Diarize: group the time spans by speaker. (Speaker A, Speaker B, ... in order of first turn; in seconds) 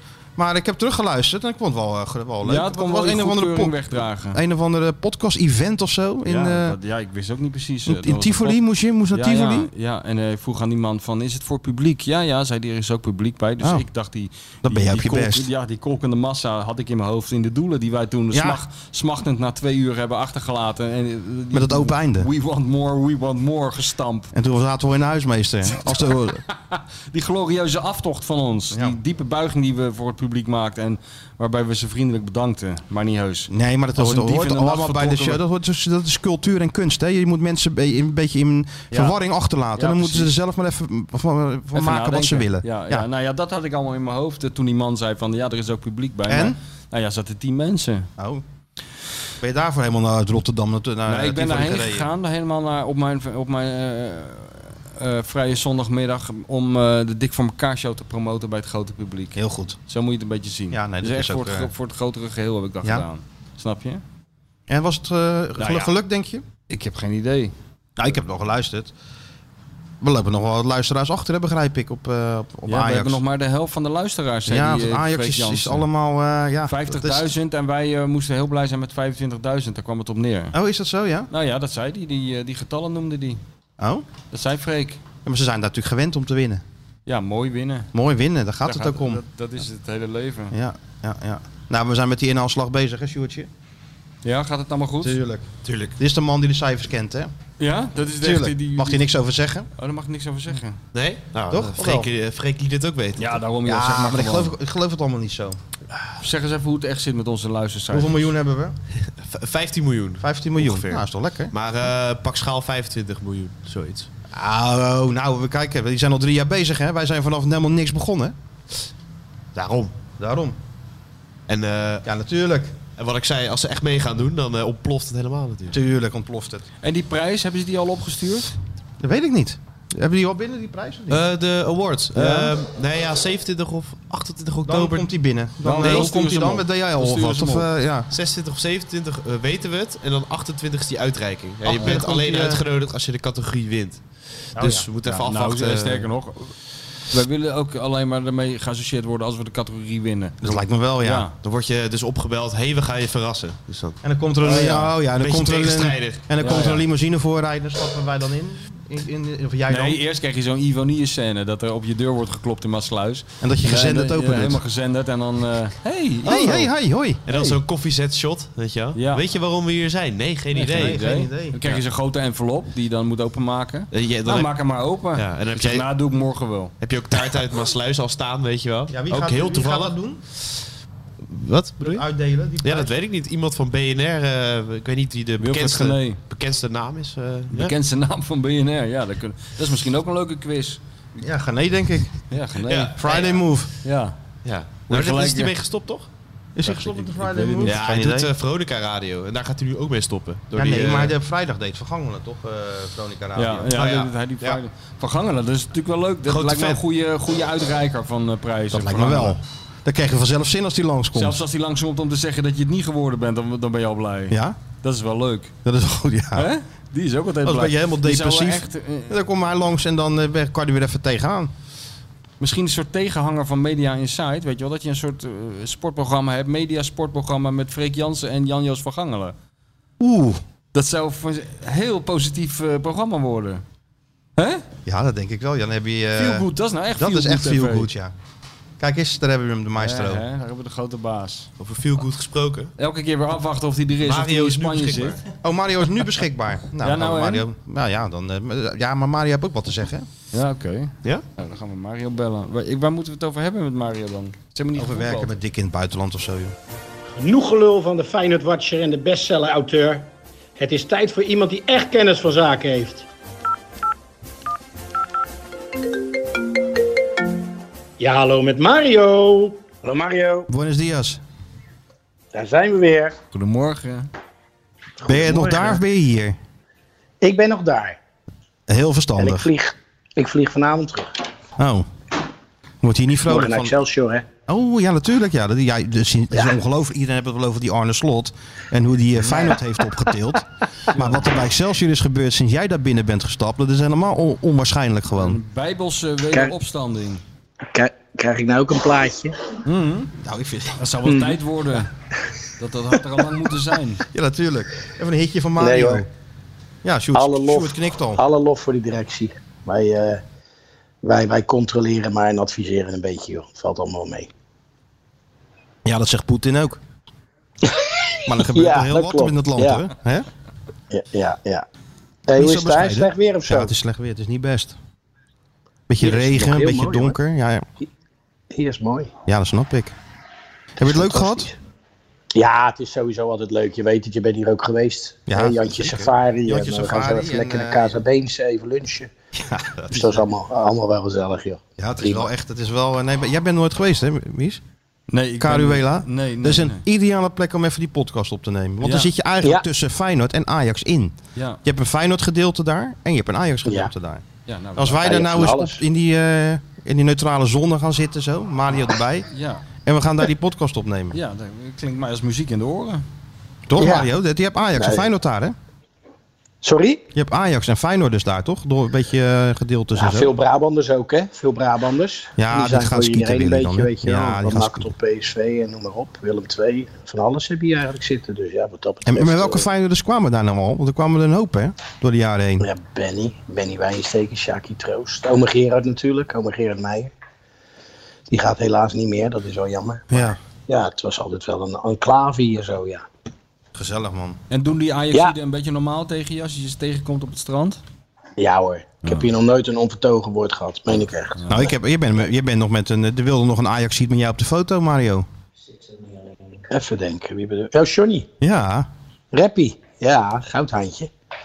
Speaker A: 0.4-6.8, 7.9-9.7, 13.6-13.9, 14.6-15.5, 18.3-18.6, 21.5-22.3, 24.3-26.4, 28.7-29.0, 33.5-43.1, 46.3-46.6, 48.2-48.4, 49.4-52.1, 59.4-59.8, 60.7-61.7, 64.7-66.4, 68.0-68.9, 70.0-73.2, 74.5-77.3, 80.5-81.3, 83.8-84.1, 85.2-86.6, 87.9-89.2, 90.5-93.5, 95.0-97.3, 98.2-99.7, 101.5-102.1, 103.7-105.6, 107.9-108.8, 110.2-111.5, 114.3-118.3, 120.2-120.6, 122.0-122.7, 125.7-126.7, 129.0-131.2, 132.1-132.5, 134.7-138.1, 141.7-142.6, 150.4-151.3, 154.0-160.0, 163.4-164.6, 166.2-167.2, 170.6-171.6, 178.9-180.2, 181.8-182.9, 191.2-192.3, 193.0-193.7, 196.6-198.3, 200.6-203.8, 208.7-211.4, 214.3-214.6, 215.7-216.5, 217.4-221.5, 230.0-230.4, 234.9-238.1, 238.8-240.2, 245.4-250.1, 254.8-256.6, 270.5-271.2, 275.1-276.4, 278.7-279.5, 281.6-281.9, 282.8-283.8, 284.5-295.4, 300.2-300.8, 304.1-306.1, 306.8-308.2, 315.9-316.8, 318.3-320.3, 322.3-324.8, 325.9-327.6, 329.3-329.9, 330.8-331.5, 335.3-338.0, 339.4-340.2, 341.8-344.6, 345.4-354.2, 354.8-359.3, 359.8-361.2, 363.7-365.6, 367.1-370.3, 372.4-374.9, 379.1-382.7, 390.1-390.4, 393.7-394.4, 401.5-405.3, 408.4-408.9
Speaker B: 2.4-4.4, 6.2-8.6, 9.1-24.3, 26.7-35.4, 38.9-39.2, 39.8-40.3, 41.7-48.1, 51.1-64.0, 65.6-65.9, 66.7-67.5, 72.7-75.9, 76.7-80.5, 81.3-83.4, 84.3-85.0, 87.1-87.9, 88.7-90.5, 94.2-95.2, 97.6-99.0, 99.8-100.8, 103.2-104.5, 106.2-108.3, 126.8-128.5, 135.6-137.7, 144.6-146.5, 147.1-151.3, 154.4-154.8, 156.4-156.8, 159.7-166.6, 167.3-167.6, 168.9-169.2, 170.6-176.7, 185.4-186.2, 187.5-190.8, 192.3-193.0, 193.8-194.2, 194.9-195.5, 196.7-197.8, 203.4-209.4, 211.1-215.5, 216.3-219.1, 222.4-229.3, 230.7-233.6, 234.4-234.7, 236.2-237.9, 239.8-241.5, 242.8-245.2, 246.8-247.4, 250.3-255.3, 273.3-274.1, 290.9-291.2, 295.1-297.2, 299.7-300.1, 300.8-301.9, 302.6-304.0, 345.1-346.8, 348.8-349.1, 351.4-351.6, 354.5-355.1, 359.3-359.7, 361.1-363.1, 394.5-397.8, 401.4-401.6
Speaker C: 95.7-95.9, 100.9-103.4, 109.0-114.1, 119.5-119.9, 121.5-122.1, 123.0-125.8, 131.1-135.1, 135.8-136.1, 138.1-144.0, 144.6-146.1, 151.4-154.0, 154.5-156.2, 166.3-166.6, 167.3-171.0, 173.9-174.5, 175.2-175.9, 176.8-180.0, 181.2-182.1, 182.6-187.7, 192.7-193.4, 194.4-196.1, 197.6-201.2, 203.7-204.6, 206.3-206.8, 241.6-242.7, 244.0-245.2
Speaker D: 257.2-263.1, 268.0-269.6
Speaker E: 269.8-270.5, 272.3-273.1, 275.0-275.8, 277.2-278.0, 279.2-281.1, 283.3-284.3, 289.3-289.6, 297.7-299.4, 301.1-301.4, 305.6-306.0, 307.1-310.2, 311.0-314.3, 317.6-319.8, 320.9-321.6, 322.3-323.7, 326.0-327.2, 328.5-329.1, 330.8-331.6, 332.4-339.1, 339.9-342.3, 354.9-355.8, 363.8-364.1, 364.8-365.1, 366.6-367.1, 370.0-379.7, 382.6-387.1, 388.3-393.1, 398.4-401.4, 406.7-408.3, 409.3-411.1